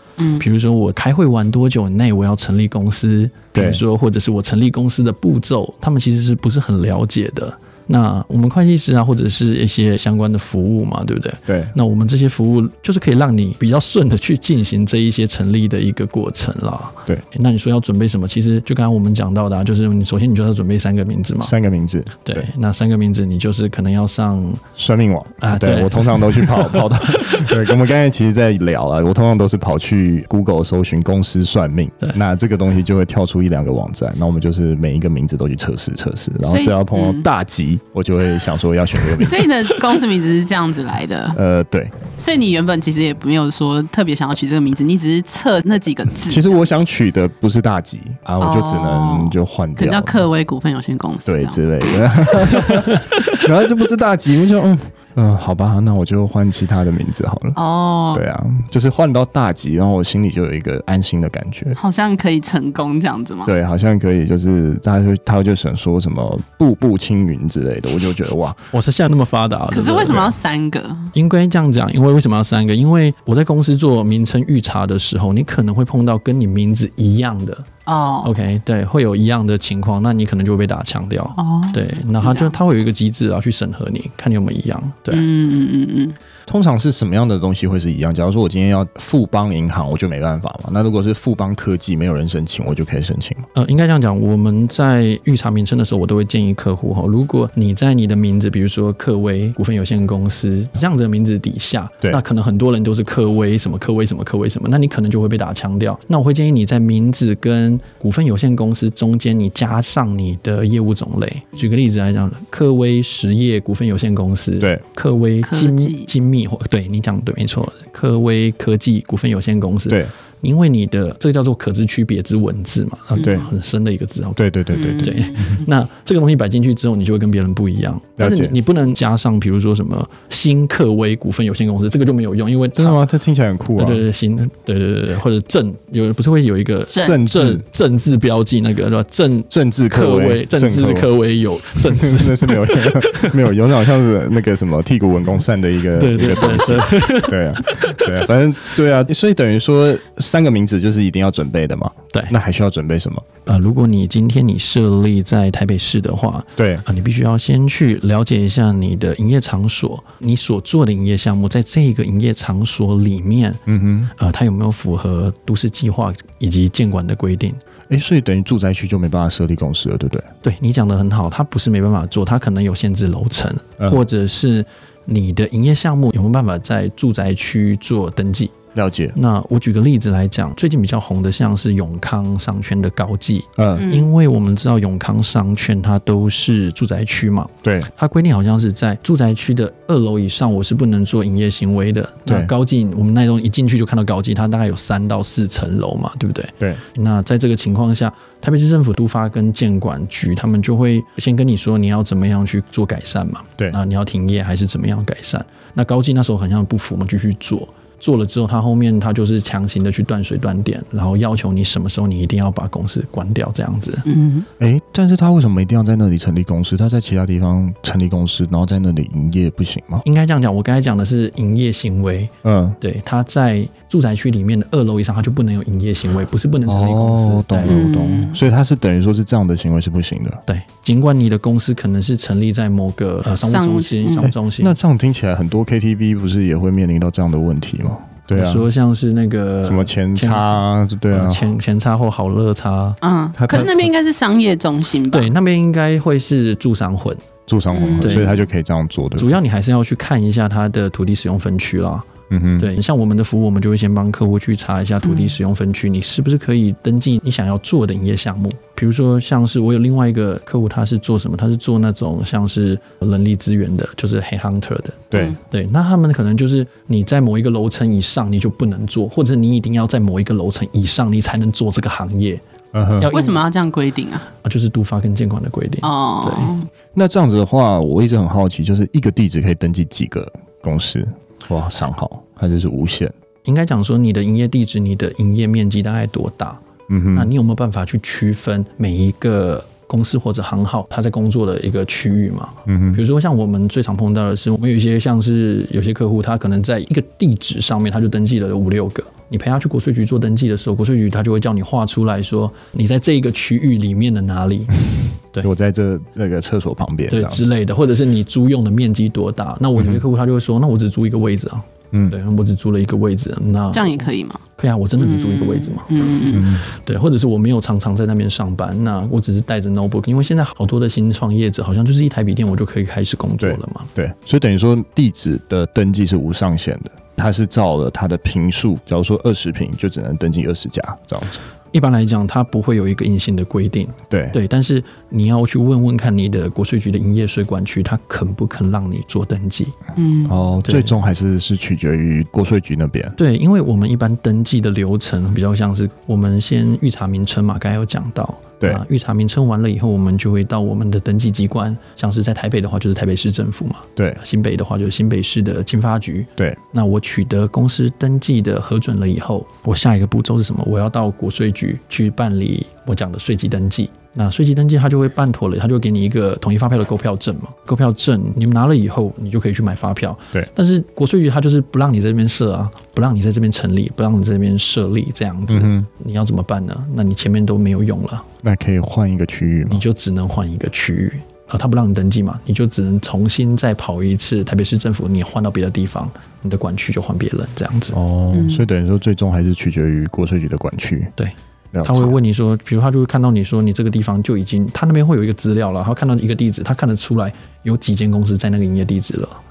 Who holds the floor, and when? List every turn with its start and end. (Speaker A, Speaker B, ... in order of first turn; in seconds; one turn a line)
Speaker A: 0.2-0.4
Speaker B: 0.4-21.5
Speaker C: 3.5-3.8
Speaker C: 11.5-11.7
Speaker C: 21.4-22.5
Speaker B: 22.2-24.6
Speaker C: 24.8-39.5
Speaker B: 25.4-27.5
Speaker A: 36.4-37.3
Speaker A: 39.1-41.4
Speaker C: 41.3-42.0
Speaker A: 42.1-46.6
Speaker C: 46.3-50.2
Speaker A: 48.4-53.3
Speaker C: 51.3-57.6
Speaker A: 57.5-58.2
Speaker C: 58.1-61.8
Speaker A: 61.8-63.5
Speaker C: 63.5-68.6
Speaker B: 68.7-70.3
Speaker A: 69.7-71.1
Speaker B: 71.1-77.7
Speaker A: 77.9-78.3
Speaker B: 78.2-85.3
Speaker A: 81.4-82.6
Speaker A: 85.1-86.2
Speaker C: 86.5-93.5
Speaker B: 93.5-124.4
Speaker A: 115.4-116.1
Speaker C: 123.2-123.5
Speaker C: 124.4-125.6
Speaker A: 124.7-125.4
Speaker B: 125.0-133.0
Speaker C: 128.2-128.6
Speaker C: 132.8-134.0
Speaker B: 133.8-143.4
Speaker A: 136.9-137.2
Speaker C: 137.0-137.6
Speaker C: 139.5-141.1
Speaker C: 141.8-153.3
Speaker B: 145.9-148.2
Speaker B: 153.5-163.6
Speaker C: 156.6-156.8
Speaker C: 163.7-164.1
Speaker B: 164.2-167.6
Speaker C: 167.9-170.3
Speaker B: 170.4-178.6
Speaker C: 178.7-179.2
Speaker B: 179.1-214.1
Speaker C: 183.6-183.9
Speaker A: 183.8-184.1
Speaker C: 187.6-187.9
Speaker A: 214.1-214.5
Speaker C: 214.6-220.0
Speaker B: 220.0-227.8
Speaker C: 222.4-222.8
Speaker C: 226.7-230.4
Speaker A: 227.7-228.4
Speaker B: 230.5-234.8
Speaker A: 233.4-234.3
Speaker C: 234.2-238.7
Speaker B: 238.3-240.6
Speaker C: 239.6-241.5
Speaker B: 241.1-243.0
Speaker A: 243.0-245.3
Speaker C: 243.4-243.9
Speaker B: 245.1-247.3
Speaker C: 247.5-249.4
Speaker A: 247.7-248.4
Speaker B: 248.0-248.3
Speaker B: 249.2-272.4
Speaker C: 252.3-252.7
Speaker A: 255.0-255.4
Speaker C: 265.1-265.4
Speaker C: 272.7-273.1
Speaker B: 273.0-273.4
Speaker A: 273.1-274.3
Speaker B: 274.4-276.6
Speaker A: 275.8-276.7
Speaker C: 276.9-283.1
Speaker B: 283.5-286.6
Speaker C: 286.9-287.3
Speaker B: 287.1-304.8
Speaker C: 292.7-293.0
Speaker C: 305.4-307.4
Speaker B: 307.1-323.9
Speaker A: 313.7-314.4
Speaker A: 315.0-316.5
Speaker C: 316.3-316.7
Speaker C: 323.4-331.4
Speaker B: 331.7-339.8
Speaker C: 334.1-334.4
Speaker A: 340.0-340.4
Speaker C: 340.2-343.2
Speaker B: 340.6-340.9
Speaker B: 343.2-378.3
Speaker C: 375.5-375.9
Speaker C: 378.4-379.8
Speaker B: 379.7-388.0
Speaker C: 387.9-391.1
Speaker A: 388.3-388.6
Speaker B: 391.2-399.4
Speaker C: 391.7-392.2